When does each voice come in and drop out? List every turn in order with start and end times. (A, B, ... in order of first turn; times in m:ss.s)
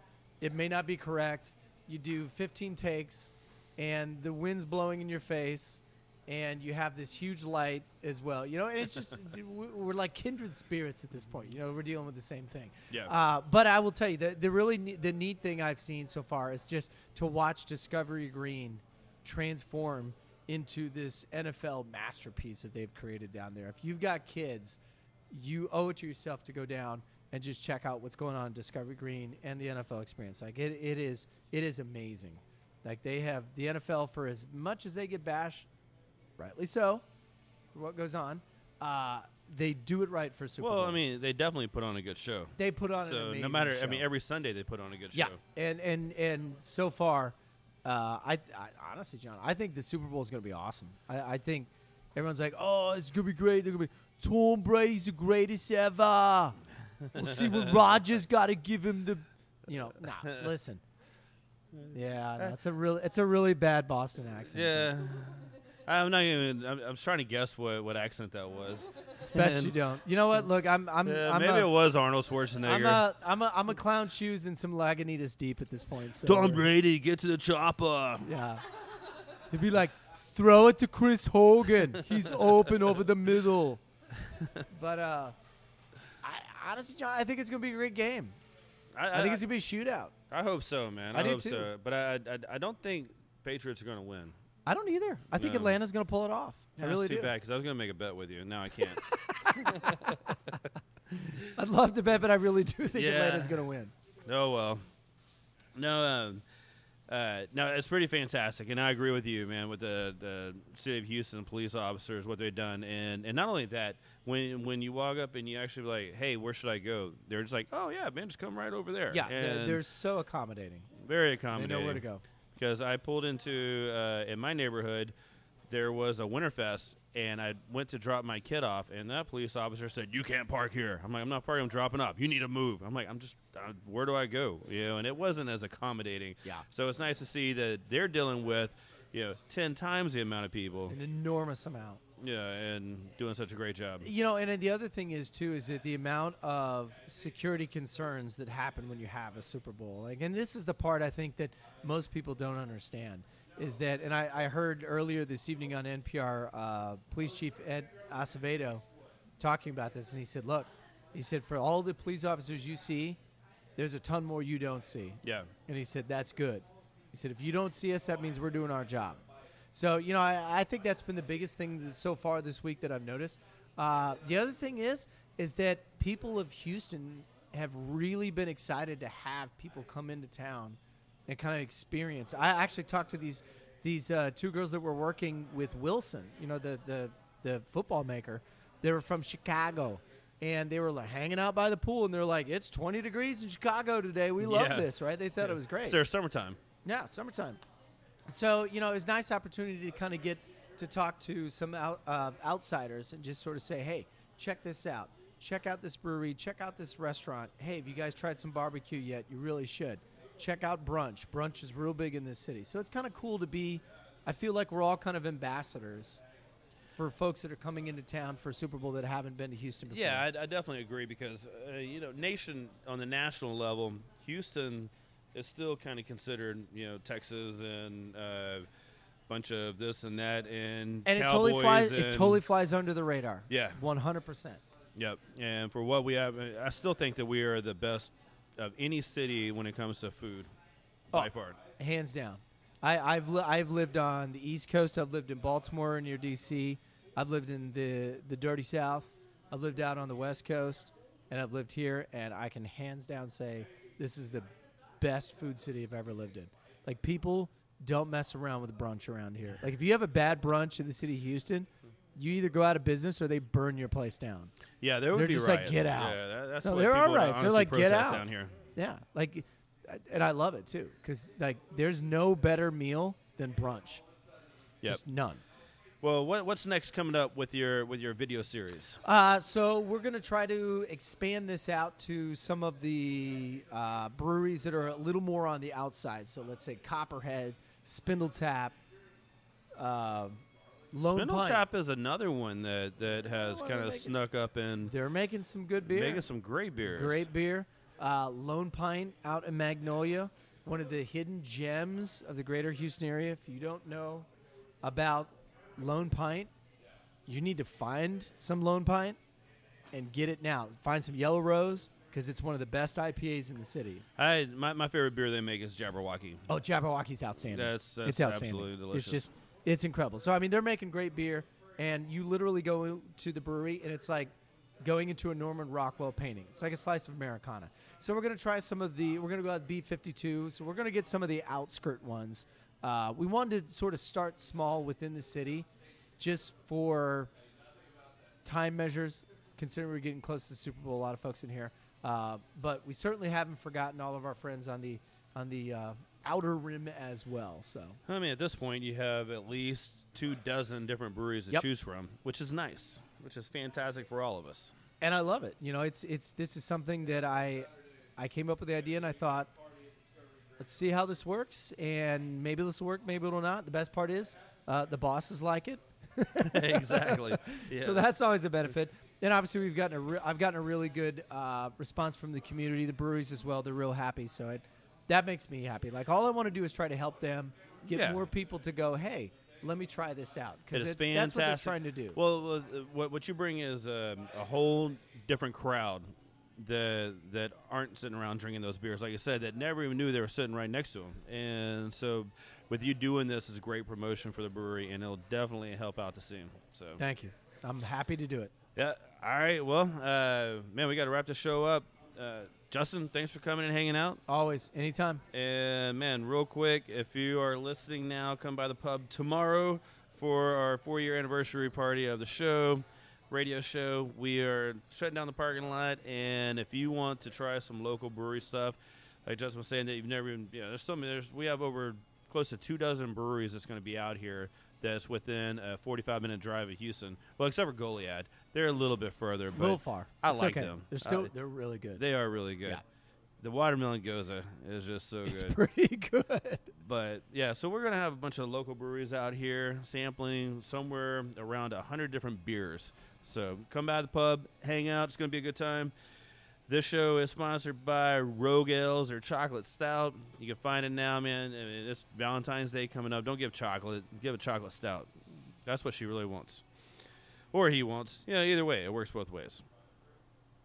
0:00.4-0:35.7 A
0:36.4-0:37.0 A
0:37.7-0:41.0 A
0:40.6-0:45.4 B
0:42.6-0:44.1 A
0:45.1-0:56.6 A
0:57.1-0:57.5 B
0:57.1-1:00.8 A
1:01.8-1:02.6 B
1:01.9-1:04.9 A
1:04.4-1:09.8 B
1:09.2-1:11.7 A
1:11.0-1:13.0 B
1:12.6-1:16.7 A
1:16.2-1:18.3 B
1:18.2-1:18.6 A
1:19.5-1:23.8 A
1:24.3-1:24.6 B
1:24.7-1:25.4 A
1:26.2-1:28.4 A
1:29.0-1:29.5 B
1:29.1-1:30.1 A
1:30.3-1:34.4 B
1:31.1-1:31.7 A
1:34.7-1:37.3 A
1:35.3-1:35.8 B
1:36.8-1:40.6 B
1:39.0-1:40.4 A
1:41.5-1:43.9 A
1:42.9-1:43.6 B
1:44.3-1:44.9 B
1:45.8-1:46.4 B
1:47.1-1:59.8 B
1:59.1-2:00.9 A
2:01.0-2:02.0 B
2:01.5-2:02.2 A
2:02.6-2:05.1 B
2:05.7-2:21.0 B
2:20.9-2:22.0 A
2:22.2-2:24.1 B
2:24.0-2:38.8 A
2:39.4-2:43.2 A
2:43.8-3:16.0 A
2:45.2-2:45.5 B
3:14.4-3:16.6 B
3:16.8-3:17.6 A
3:18.3-3:36.2 A
3:36.9-3:40.3 A
3:39.9-3:48.7 B
3:49.3-3:52.4 B
3:51.0-3:54.6 A
3:53.5-3:53.8 B
3:55.0-4:00.5 B
4:01.1-4:01.6 B
4:01.1-4:24.5 A
4:24.8-4:28.6 B
4:25.1-4:34.0 A
4:34.8-4:35.4 A
4:36.0-4:39.0 B
4:39.0-4:48.8 A
4:49.8-4:51.7 A
4:51.0-4:54.9 B
4:53.2-4:54.2 A
4:54.8-4:56.2 A
4:55.9-4:57.3 B
4:56.8-5:04.3 A
5:04.8-5:06.5 A
5:07.3-5:09.2 A
5:09.9-5:14.1 A
5:14.2-5:16.5 B
5:16.5-5:35.7 A
5:17.4-5:19.3 B
5:36.2-5:37.3 A
5:38.4-5:48.0 A
5:48.1-5:54.7 B
5:55.0-5:59.5 A
6:00.6-6:22.2 A
6:06.4-6:08.1 B
6:17.9-6:18.3 B
6:20.7-6:37.0 B
6:37.0-6:38.5 A
6:38.8-6:44.2 B
6:44.3-6:45.2 A
6:45.3-7:11.3 B
7:09.5-7:12.0 A
7:12.0-7:12.8 B
7:13.4-7:15.6 B
7:15.3-7:16.7 A
7:16.8-7:25.9 B
7:26.7-7:35.1 B
7:35.6-7:36.6 B
7:37.5-7:39.7 B